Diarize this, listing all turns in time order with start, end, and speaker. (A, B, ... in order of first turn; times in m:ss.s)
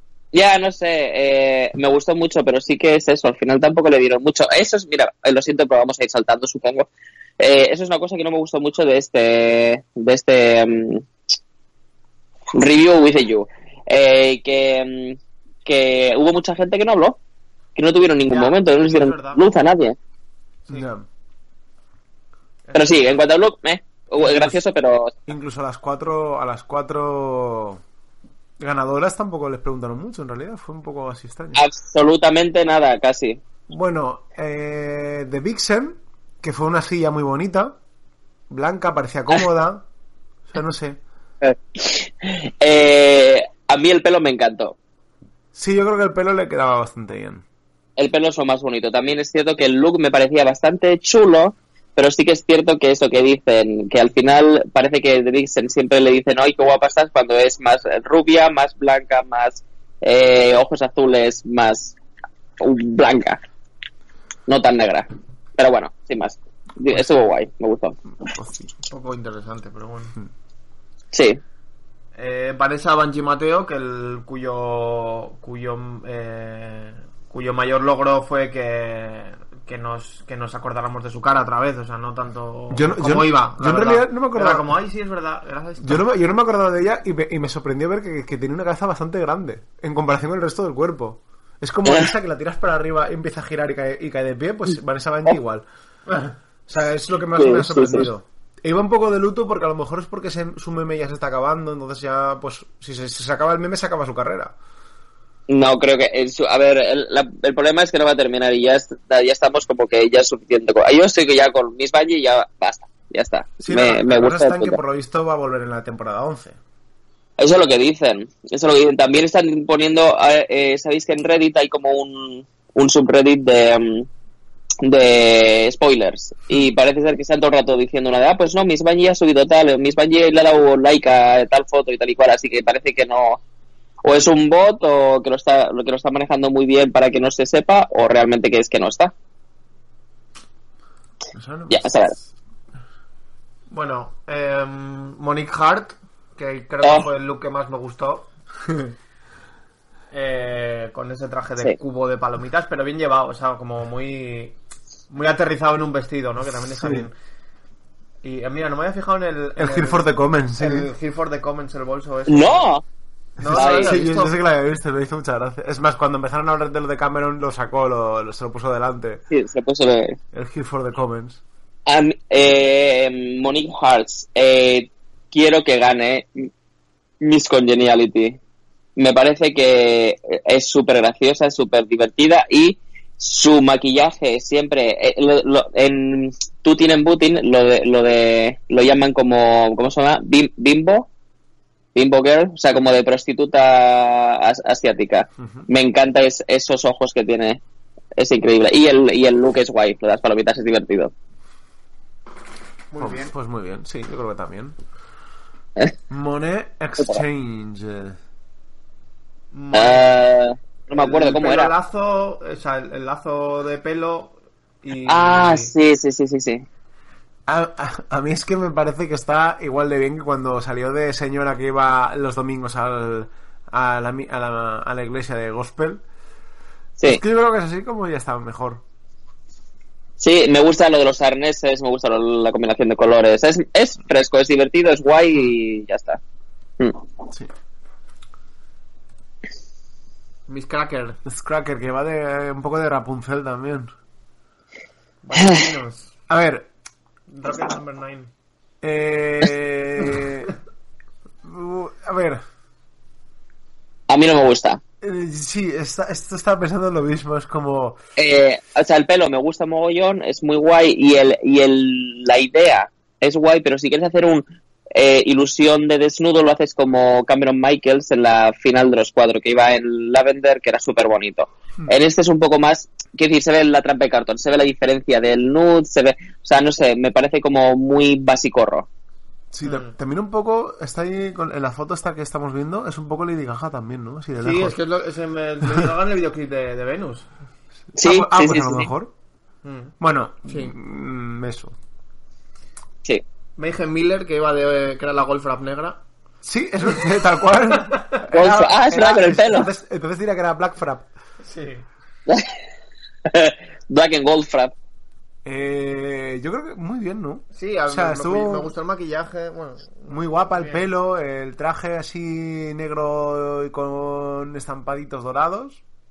0:00.3-0:06.9 A
0:07.4-0:11.1 A
0:12.5-0:17.2 A
0:17.8-0:20.0 A
0:18.3-0:19.4 B
0:20.7-0:21.1 C
0:22.7-0:23.2 B
0:22.7-0:25.2 A
0:25.3-0:27.8 C
0:28.6-0:31.6 C
0:31.6-0:33.4 A
0:33.7-0:37.8 C
0:38.5-0:39.8 C
0:40.5-0:41.0 C
0:41.4-0:44.8 A
0:45.5-0:47.4 C
0:48.0-1:02.0 A
1:02.6-1:03.4 A
1:04.5-1:08.0 A
1:08.2-1:08.7 C
1:08.9-1:10.2 B
1:11.1-1:11.4 A
1:12.2-1:26.0 B
1:22.7-1:24.7 C
1:25.8-1:35.7 C
1:36.7-1:44.6 C
1:37.4-1:38.1 A
1:45.5-1:54.8 A
1:53.6-1:56.6 C
1:57.4-2:04.1 A
2:04.8-2:13.4 A
2:14.0-2:19.1 A
2:21.3-2:22.3 C
2:21.7-2:22.2 A
2:23.7-2:28.3 B
2:26.8-2:27.1 A
2:30.1-2:34.6 B
2:35.1-2:37.2 B
2:36.8-2:37.1 C
2:38.2-2:42.7 B
2:39.6-2:40.9 C
2:42.3-2:42.8 A
2:43.4-2:44.4 B
2:43.4-2:49.2 C
2:43.5-2:44.0 A
2:49.3-2:50.2 A
2:50.3-2:51.4 C
2:51.9-2:56.5 A
2:57.2-2:58.4 A
2:59.0-3:11.1 A
3:12.0-3:17.6 A
3:15.4-3:15.7 C
3:18.2-3:21.1 A
3:22.9-3:23.3 B
3:23.0-3:24.8 C
3:26.1-3:28.2 C
3:29.5-3:30.2 B
3:29.7-3:31.7 A
3:30.9-3:35.7 B
3:35.1-3:36.7 A
3:37.5-3:46.0 C
3:47.0-3:48.8 C
3:50.2-3:56.2 A
4:00.5-4:01.2 B
4:01.2-4:03.9 C
4:05.2-4:06.2 B
4:06.3-4:06.7 C
4:07.3-4:08.3 B
4:08.8-4:10.5 C
4:11.4-4:12.4 C
4:14.1-4:14.8 A
4:15.0-4:18.0 C
4:18.2-4:24.4 A
4:25.0-4:38.9 A
4:39.5-4:44.8 C
4:39.6-4:40.0 B
4:44.4-4:47.3 B
4:48.0-4:48.9 A
4:48.0-4:49.1 C
4:49.6-4:49.9 B
4:50.0-4:51.8 C
4:50.5-4:50.7 B
4:53.6-4:56.0 B
4:56.4-5:01.1 C
4:58.0-4:58.2 B
4:58.3-4:59.7 A
5:01.4-5:01.9 B
5:02.3-5:02.5 A
5:03.3-5:04.7 A
5:05.4-5:08.7 C
5:07.6-5:10.8 B
5:10.1-5:15.8 C